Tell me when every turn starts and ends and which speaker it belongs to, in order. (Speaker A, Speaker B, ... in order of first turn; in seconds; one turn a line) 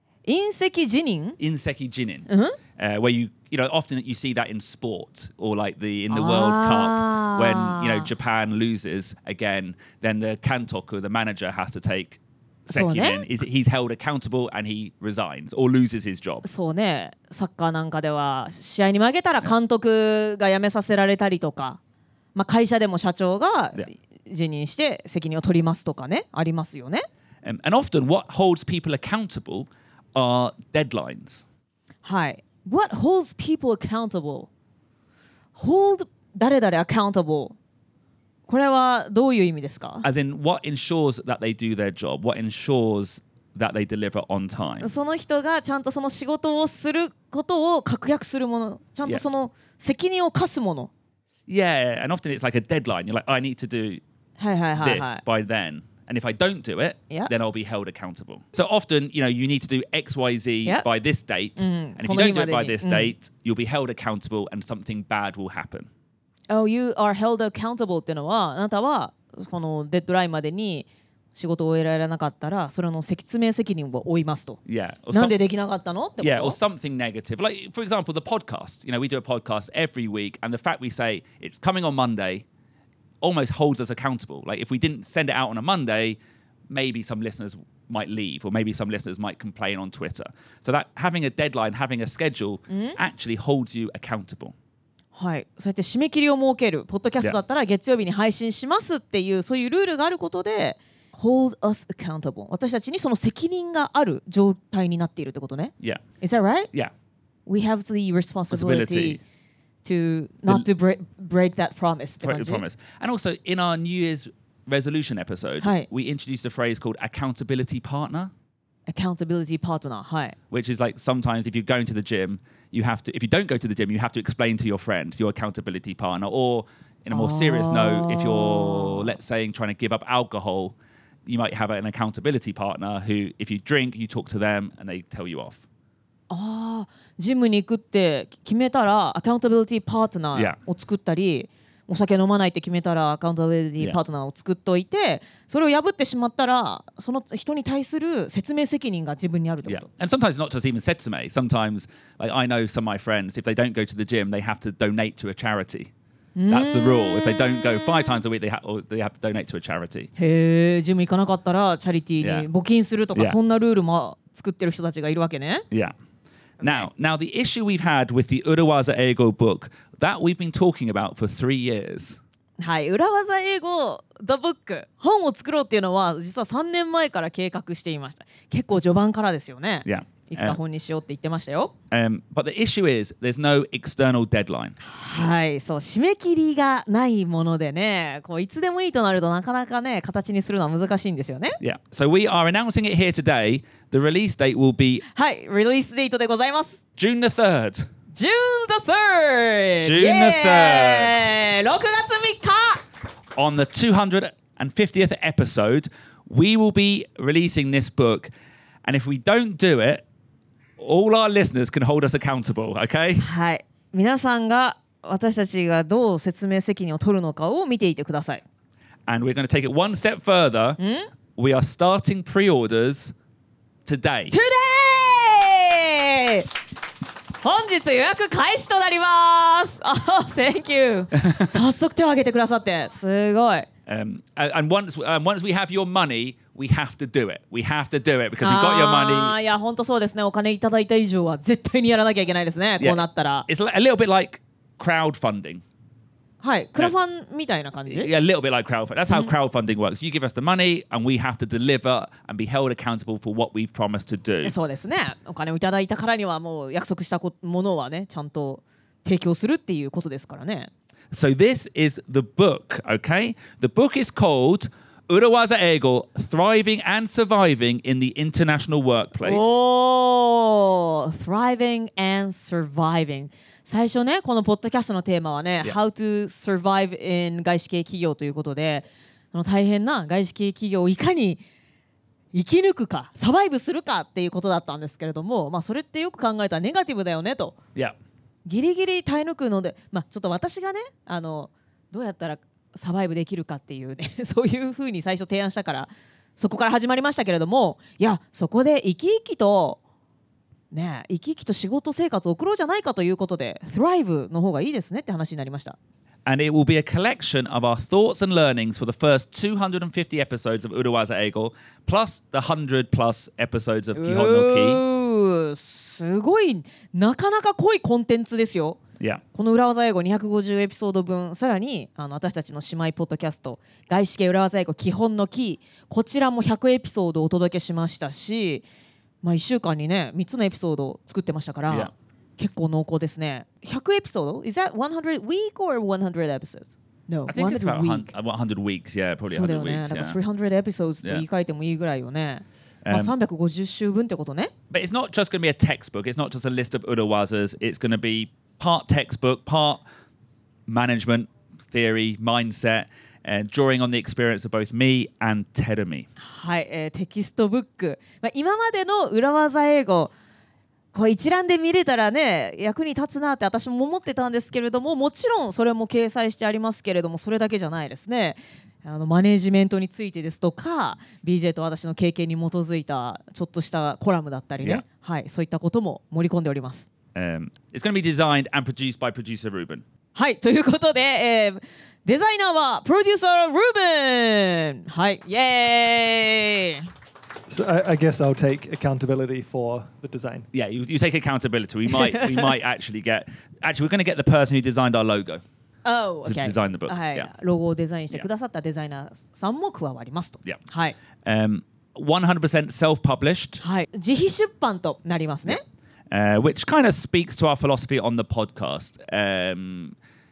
Speaker A: 0.3-1.4
Speaker B: 1.4-16.4
Speaker A: 2.3-2.6
Speaker A: 6.1-8.1
Speaker A: 12.7-13.3
Speaker A: 16.4-21.8
Speaker A: 22.4-27.1
Speaker B: 27.4-31.4
Speaker A: 32.0-34.5
Speaker A: 35.5-37.6
Speaker A: 38.5-40.1
Speaker B: 40.0-44.9
Speaker A: 44.8-50.9
Speaker B: 51.5-54.0
Speaker A: 54.4-55.2
Speaker B: 54.8-65.9
Speaker A: 61.6-63.1
Speaker A: 66.5-74.6
Speaker B: 74.7-75.4
Speaker A: 75.1-76.6
Speaker B: 76.2-82.5
Speaker B: 83.2-86.2
Speaker B: 86.7-94.5
Speaker A: 92.7-93.0
Speaker A: 95.2-106.7
Speaker A: 107.5-109.2
Speaker B: 108.5-109.2
Speaker A: 109.8-112.6
Speaker B: 112.2-118.3
Speaker A: 115.6-115.9
Speaker A: 118.9-120.4
Speaker B: 120.5-130.8
Speaker A: 127.1-129.2
Speaker B: 131.3-135.6
Speaker A: 136.3-149.9
Speaker B: 149.7-155.9
Speaker A: 156.4-158.2
Speaker B: 156.5-160.1
Speaker A: 160.2-165.7
Speaker B: 162.2-162.5
Speaker A: 166.6-166.9
Speaker B: 166.6-172.2
Speaker A: 172.6-181.7
Speaker B: 179.9-180.6
Speaker B: 181.9-184.8
Speaker A: 184.8-191.6
Speaker B: 191.6-195.0
Speaker A: 195.1-196.8
Speaker B: 197.0-197.9
Speaker A: 198.2-202.8
Speaker B: 199.8-201.3
Speaker B: 203.3-208.3
Speaker B: 208.8-210.1
Speaker B: 210.8-213.2
Speaker A: 213.2-218.4
Speaker B: 219.1-220.8
Speaker A: 220.8-221.1
Speaker B: 221.4-223.1
Speaker B: 223.9-224.3
Speaker A: 224.3-226.5
Speaker A: 227.4-233.7
Speaker B: 231.2-231.5
Speaker B: 233.9-239.4
Speaker A: 238.4-243.5
Speaker B: 242.8-245.6
Speaker A: 246.4-248.1
Speaker B: 247.9-254.6
Speaker A: 254.4-260.7
Speaker B: 261.1-269.6
Speaker A: 269.2-281.4
Speaker A: 282.3-287.6
Speaker A: 288.5-299.8
Speaker A: 300.7-305.8
Speaker B: 306.3-314.8
Speaker A: 313.9-318.8
Speaker A: 319.3-328.7
Speaker A: 329.2-338.1
Speaker B: 337.3-340.2
Speaker A: 339.3-344.5
Speaker B: 342.9-343.1
Speaker B: 344.7-349.8
Speaker B: 350.7-356.1
Speaker A: 356.2-360.1
Speaker A: 360.9-376.9
Speaker B: 377.1-379.8
Speaker A: 380.1-386.9
Speaker C: 387.5-390.5
Speaker B: 390.5-395.4
Speaker A: 391.9-392.6
Speaker A: 395.9-401.0
Speaker B: 396.2-397.3
Speaker B: 401.2-403.6
Speaker A: 403.6-405.6
Speaker B: 406.1-410.0